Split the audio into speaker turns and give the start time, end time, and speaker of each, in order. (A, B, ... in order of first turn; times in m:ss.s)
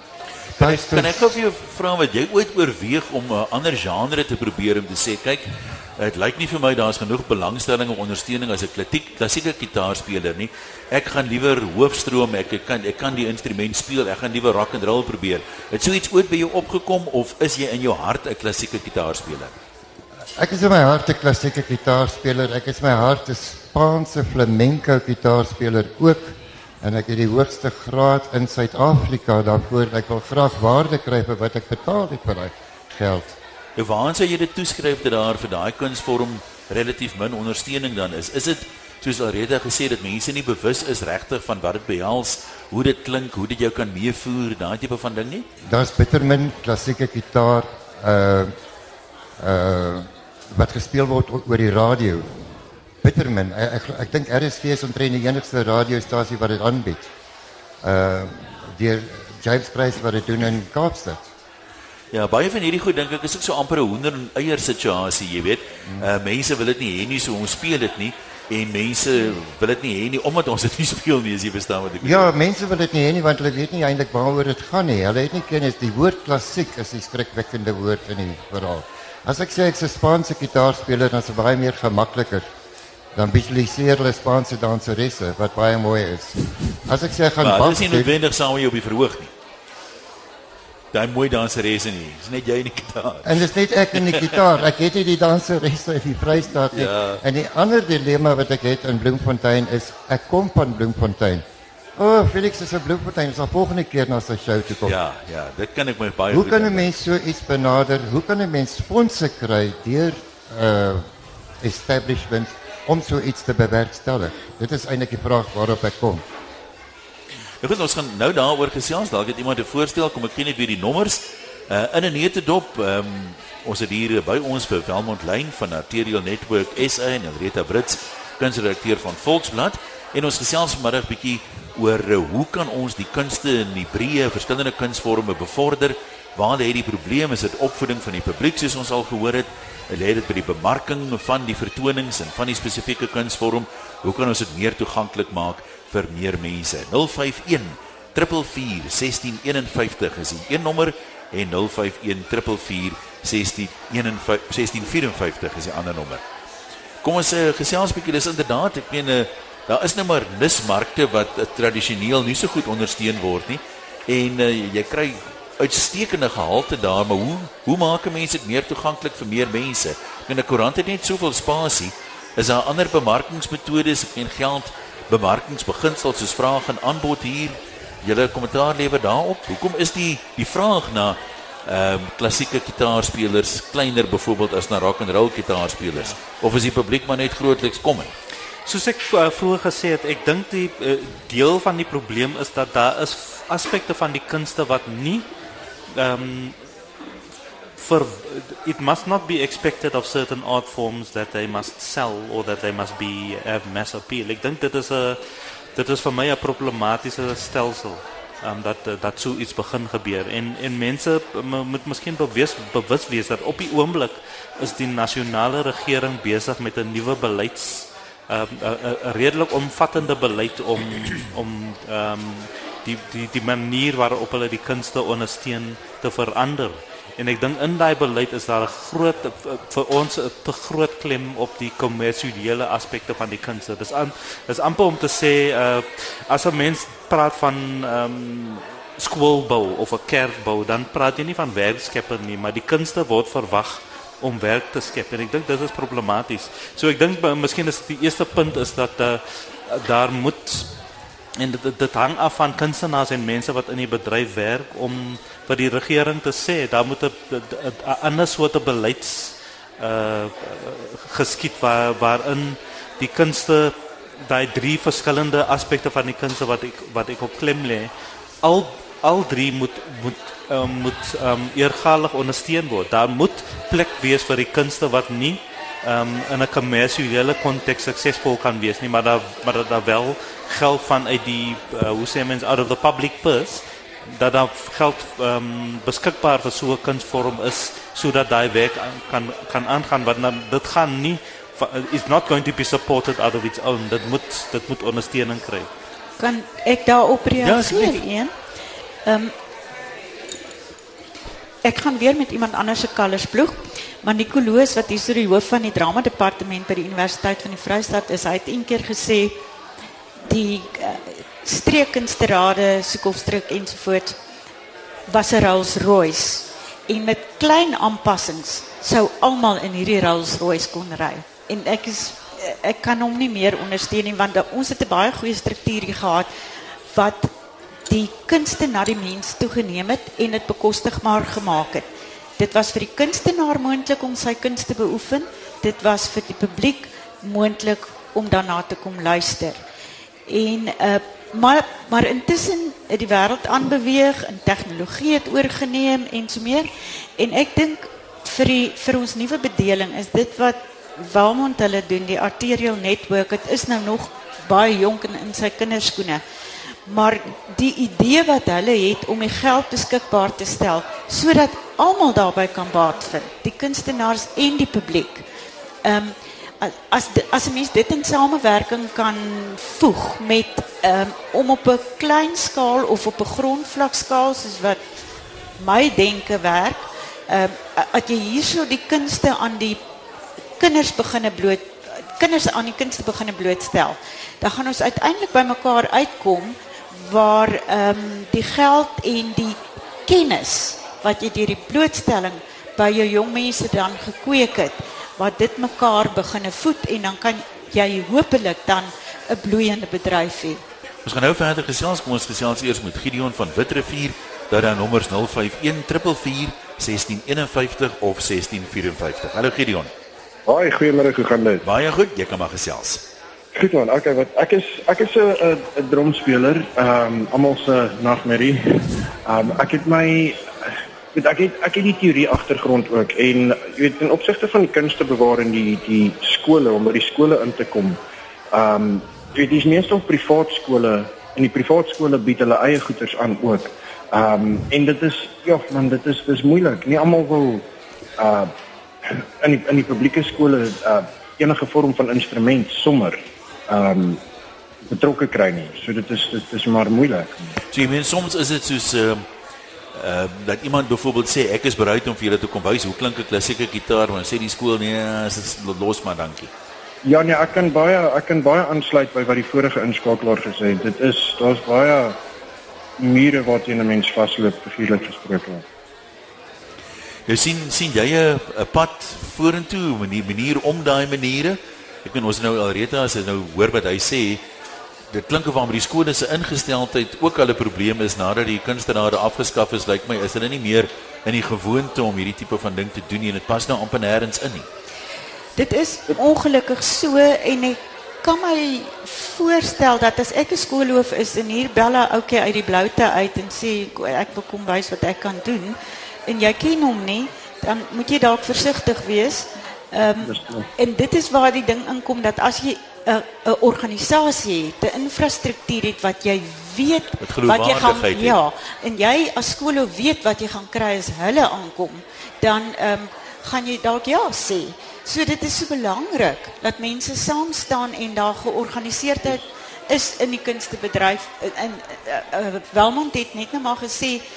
0:00.6-0:01.4 A
0:00.6-0:19.5 B
0:20.4-0:33.4 A
0:33.8-0:45.5 B
0:45.6-0:48.5 A
0:49.4-0:52.3 A
0:53.0-0:57.1 A
0:57.8-1:01.3 A
1:02.1-1:12.3 B
1:12.0-1:22.5 A
1:23.1-1:28.1 A
1:27.4-1:29.3 B
1:30.9-1:34.3 B
1:33.2-1:41.4 A
1:36.7-1:37.2 B
1:42.0-1:45.0 A
1:44.8-1:46.9 B
1:46.3-1:51.1 A
1:51.6-1:56.2 A
1:57.6-2:36.2 B
2:37.0-3:08.1 B
3:08.7-3:15.2 C
3:15.9-3:16.6 C
3:17.8-3:25.2 C
3:25.8-4:10.7 C
4:11.4-4:27.9 C
4:28.4-4:55.7 C
4:56.2-4:58.3 D
4:57.4-4:58.0 B
4:59.0-4:59.3 D
5:01.6-5:09.4 D
5:10.3-5:14.2 D
5:15.1-5:26.3 D
5:26.9-5:27.3 D
5:27.9-5:31.9 D
5:32.4-5:39.6 D
5:40.3-5:56.2 D
5:56.8-6:05.2 D
6:05.8-6:14.8 D
6:15.6-6:19.8 D
6:20.6-6:40.6 D
6:41.0-6:49.9 B
6:50.4-6:51.6 E
6:51.6-6:53.0 B
6:53.5-7:08.0 E
7:08.5-7:17.6 E
7:18.2-7:18.5 E
7:19.0-7:24.2 E
7:24.9-7:27.4 E
7:27.7-7:29.2 B
7:29.9-7:36.5 B
7:37.0-7:42.2 E
7:43.0-7:45.6 E
7:47.3-7:54.4 B
7:55.1-8:04.7 B
8:05.6-8:15.8 D
8:16.3-8:44.2 D
8:20.2-8:20.7 E
8:27.2-8:28.4 B